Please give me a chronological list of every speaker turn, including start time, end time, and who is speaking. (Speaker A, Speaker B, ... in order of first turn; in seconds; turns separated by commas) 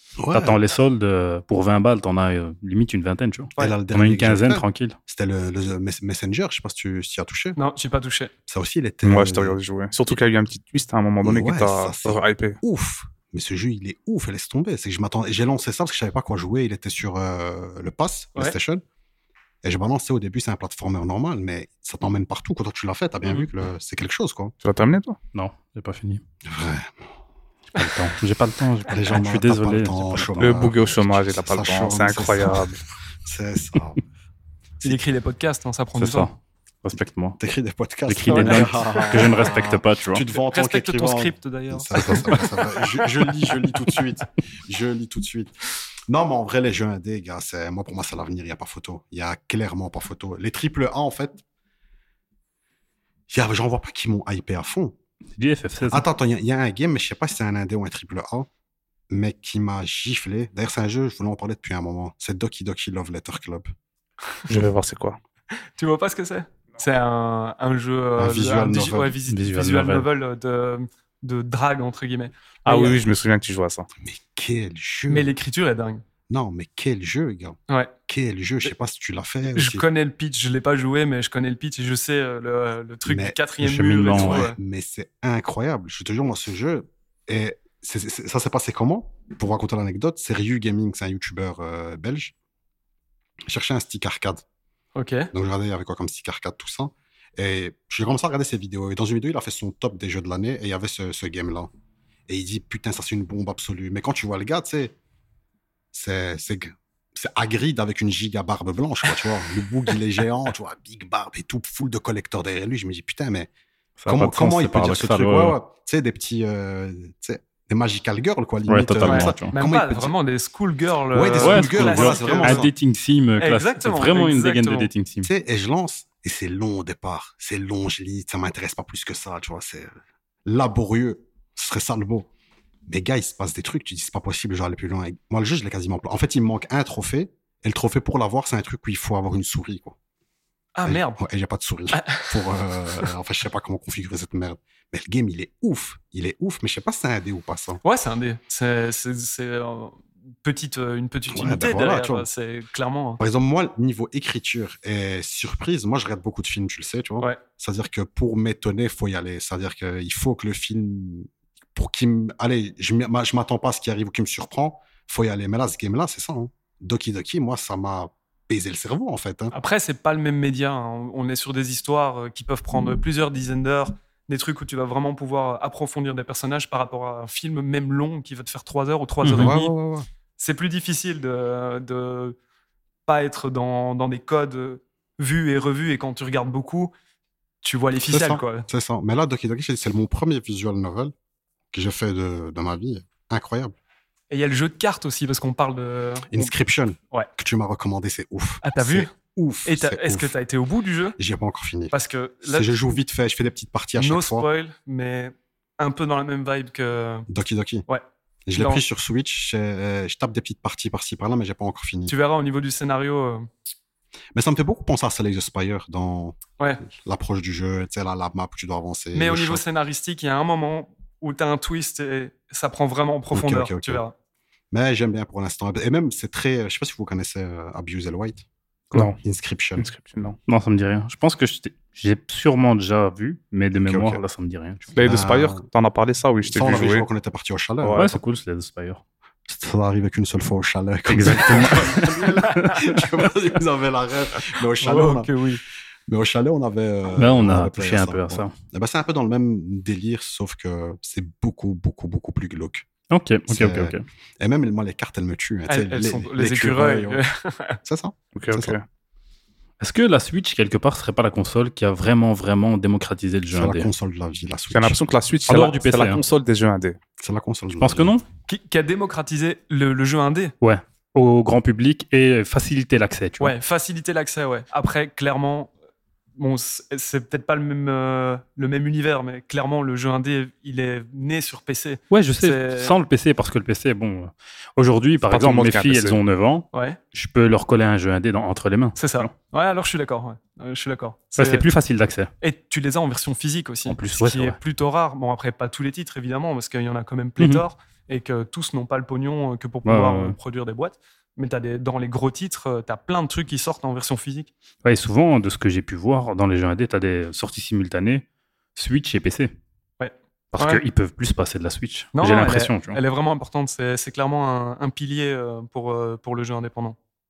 Speaker A: 0.2-0.6, Speaker B: 0.3-5.0, Speaker A: 3.6-7.6, Speaker C: 7.5-8.3, Speaker A: 8.5-9.6, Speaker D: 9.0-12.6, Speaker A: 11.2-18.8, Speaker A: 19.6-24.5, Speaker D: 24.6-25.2, Speaker B: 25.3-26.2, Speaker A: 26.4-27.1, Speaker B: 27.7-30.6, Speaker A: 28.9-34.0, Speaker D: 30.4-32.8, Speaker C: 34.8-36.3, Speaker B: 36.0-37.4, Speaker A: 37.4-45.5, Speaker B: 38.1-40.2, Speaker C: 38.3-39.4, Speaker C: 40.5-43.0, Speaker A: 46.1-51.4, Speaker A: 53.3-55.0, Speaker B: 55.4-56.0, Speaker A: 55.9-58.5, Speaker A: 59.1-63.7, Speaker D: 64.5-65.2, Speaker C: 65.8-73.0, Speaker A: 68.2-69.1, Speaker B: 69.3-70.1, Speaker D: 72.7-73.9, Speaker A: 74.0-75.3, Speaker C: 75.1-76.0, Speaker A: 76.3-79.8, Speaker C: 79.5-84.6, Speaker A: 83.0-83.4, Speaker B: 83.6-84.4, Speaker A: 84.1-92.3, Speaker A: 93.5-94.4, Speaker C: 95.0-95.3, Speaker A: 95.3-101.7, Speaker A: 102.3-104.9, Speaker A: 105.9-113.5, Speaker B: 114.0-115.6, Speaker A: 114.1-120.1, Speaker B: 118.7-119.5, Speaker C: 119.0-122.7, Speaker A: 121.1-122.7, Speaker B: 121.4-125.3, Speaker C: 123.4-124.9, Speaker A: 125.2-132.3, Speaker A: 132.9-139.9, Speaker C: 140.8-141.2, Speaker A: 140.8-147.8, Speaker C: 141.9-142.4, Speaker C: 147.8-153.2, Speaker A: 151.3-152.3, Speaker A: 153.2-169.5, Speaker C: 169.5-179.7, Speaker B: 179.2-179.5, Speaker A: 179.3-180.1, Speaker C: 180.4-182.4, Speaker C: 183.1-186.9, Speaker C: 187.6-188.7, Speaker A: 188.0-191.1, Speaker A: 191.7-193.7, Speaker C: 194.3-196.5, Speaker A: 196.3-200.3, Speaker C: 198.6-199.1, Speaker C: 199.6-201.2, Speaker A: 201.2-204.5, Speaker C: 201.9-202.9, Speaker C: 204.0-207.3, Speaker A: 207.3-207.8, Speaker A: 208.5-212.1, Speaker C: 208.6-208.8, Speaker C: 212.1-213.5, Speaker A: 214.3-219.6, Speaker C: 219.1-224.1, Speaker A: 223.3-224.0, Speaker A: 224.7-228.4, Speaker A: 229.2-229.8, Speaker D: 229.8-230.4, Speaker B: 230.5-234.9, Speaker A: 233.8-234.2, Speaker D: 234.9-237.1, Speaker A: 235.0-235.6, Speaker A: 236.5-238.2, Speaker D: 237.8-238.2, Speaker B: 237.9-239.0, Speaker A: 239.5-245.3, Speaker B: 241.1-242.8, Speaker C: 244.8-245.6, Speaker A: 246.1-252.8, Speaker B: 247.1-248.5, Speaker B: 253.1-254.0, Speaker A: 253.5-257.2, Speaker C: 255.7-257.8, Speaker A: 257.8-258.8, Speaker D: 258.3-258.8, Speaker B: 259.8-263.9, Speaker A: 263.5-265.0, Speaker D: 264.7-267.0, Speaker B: 265.5-266.2, Speaker A: 267.2-268.1, Speaker B: 267.8-268.2, Speaker C: 268.5-270.5, Speaker B: 270.6-273.5, Speaker C: 273.4-275.7, Speaker C: 276.4-282.9, Speaker B: 282.1-289.3, Speaker D: 285.2-286.2, Speaker C: 286.7-287.0, Speaker C: 289.0-291.6, Speaker B: 291.4-292.3, Speaker C: 292.4-304.5, Speaker B: 293.9-294.6, Speaker B: 297.4-297.6, Speaker B: 299.8-300.4, Speaker B: 304.8-308.2, Speaker B: 308.8-309.5, Speaker C: 310.0-310.8, Speaker B: 310.5-313.0, Speaker C: 312.1-317.0